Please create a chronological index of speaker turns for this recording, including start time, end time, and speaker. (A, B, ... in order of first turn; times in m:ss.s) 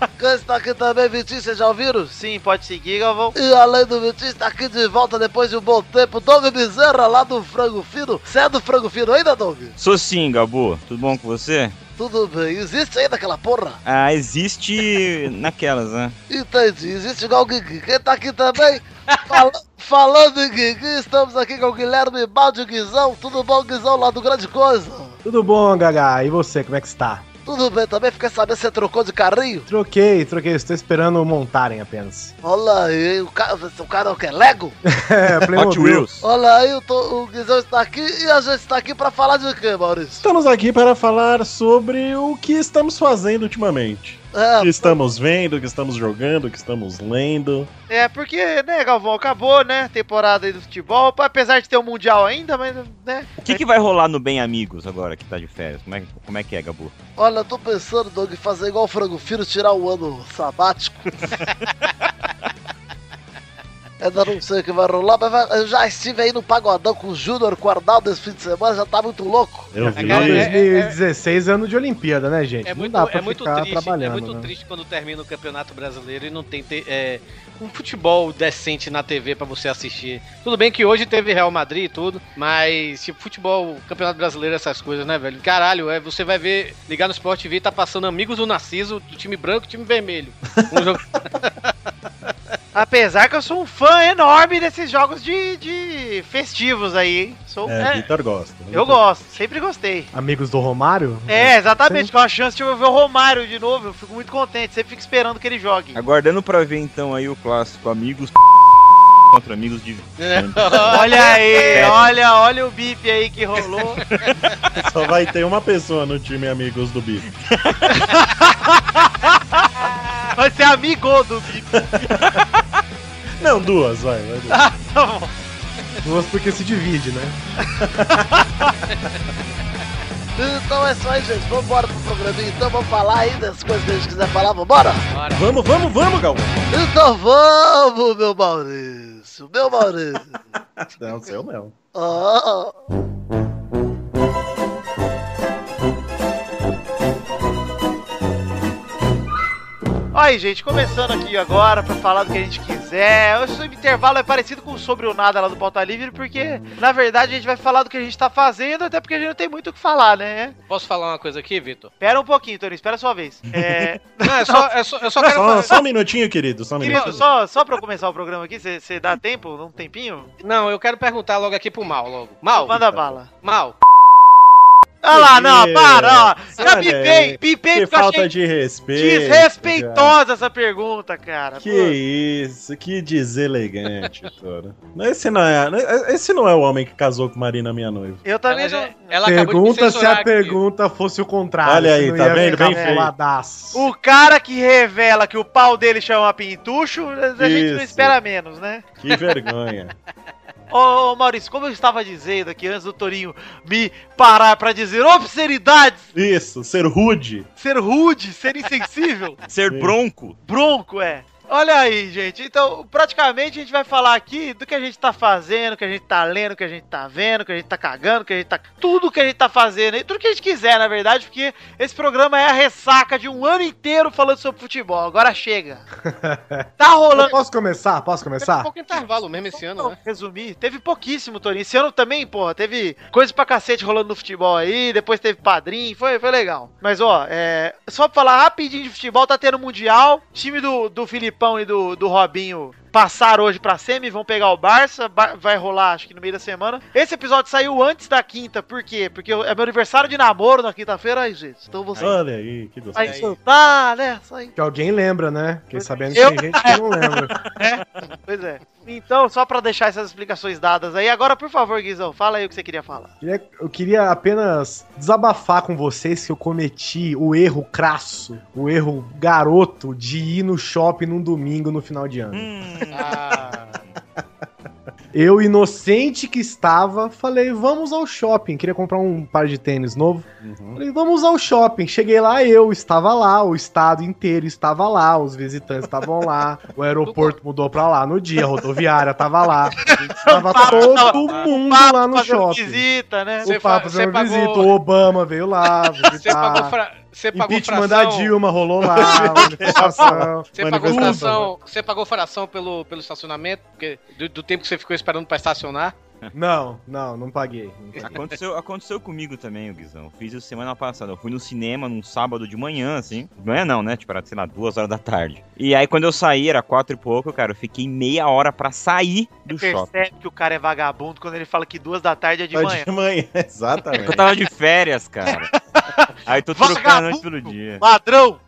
0:00.2-0:02.1 A
0:02.1-0:03.3 B
0:03.3-0:09.7 A
0:09.8-0:11.8 C
0:12.0-0:13.8 A
0:13.8-0:16.1 C
0:16.3-0:25.2 A
0:19.1-0:19.4 D
0:25.2-0:27.2 E
0:27.4-0:29.7 A
0:29.7-0:32.3 E
0:32.4-0:34.8 A
0:34.8-0:36.1 E
0:35.5-0:36.3 C
0:36.2-0:40.2 A
0:40.2-0:47.7 F
0:44.3-0:45.0 A
0:47.9-0:53.6 B
0:53.4-0:56.9 C
0:57.2-1:01.1 A
1:04.0-1:09.7 A
1:09.7-1:10.5 F
1:09.8-1:14.5 E
1:09.9-1:11.0 D
1:12.6-1:31.7 D
1:30.5-1:30.8 F
1:32.7-1:38.1 B
1:37.6-1:39.0 F
1:38.7-1:40.1 B
1:40.1-1:42.1 E
1:41.3-1:46.0 B
1:45.9-1:48.5 C
1:49.3-1:51.0 C
1:50.2-1:52.0 D
1:50.9-1:54.0 B
1:51.7-1:52.1 C
1:54.8-1:57.3 F
1:58.1-1:59.7 B
2:00.3-2:01.7 B
2:01.7-2:02.4 F
2:03.4-2:04.7 F
2:04.5-2:05.3 B
2:06.0-2:07.4 E
2:07.8-2:08.2 F
2:10.4-2:15.0 A
2:15.1-2:15.5 D
2:15.3-2:16.6 F
2:16.7-2:20.3 A
2:20.6-2:21.7 F
2:21.9-2:22.8 A
2:30.1-2:40.5 B
2:40.7-2:41.9 D
2:42.0-2:45.6 B
2:44.2-2:45.7 D
2:45.3-2:47.2 F
2:46.8-2:50.3 B
2:46.9-2:47.2 D
2:50.4-2:53.8 D
2:52.5-2:53.3 B
2:55.0-2:58.3 B
2:55.1-3:00.1 F
2:58.9-3:02.0 B
3:01.6-3:08.2 F
3:08.2-3:09.2 B
3:08.5-3:10.6 D
3:09.2-3:13.9 E
3:11.6-3:13.1 F
3:12.5-3:12.9 B
3:13.7-3:18.8 B
3:17.4-3:18.2 F
3:19.0-3:20.0 F
3:20.7-3:26.1 B
3:26.1-3:27.5 F
3:27.6-3:29.4 B
3:29.5-3:30.4 C
3:29.7-3:30.0 F
3:30.4-3:45.8 B
3:46.0-3:48.7 E
3:46.8-3:47.3 B
3:48.4-3:49.9 D
3:49.5-4:12.1 B
4:12.0-4:13.2 F
4:12.9-4:13.4 D
4:12.9-4:14.5 B
4:14.6-4:17.3 E
4:16.1-4:23.1 B
4:23.2-4:32.5 E
4:32.3-4:33.2 C
4:32.9-4:33.8 D
4:35.1-4:52.8 E
4:40.4-4:40.8 F
4:47.0-4:47.3 D
4:50.2-4:53.5 B
4:53.4-4:56.7 E
4:53.4-4:54.7 D
4:56.0-4:58.3 D
4:57.3-5:01.4 E
4:58.9-5:01.5 F
5:00.6-5:05.9 D
5:06.3-5:08.2 E
5:08.0-5:19.9 C
5:19.5-5:22.9 B
5:22.5-5:24.3 F
5:23.9-5:25.5 C
5:25.7-5:28.4 B
5:26.2-5:27.8 C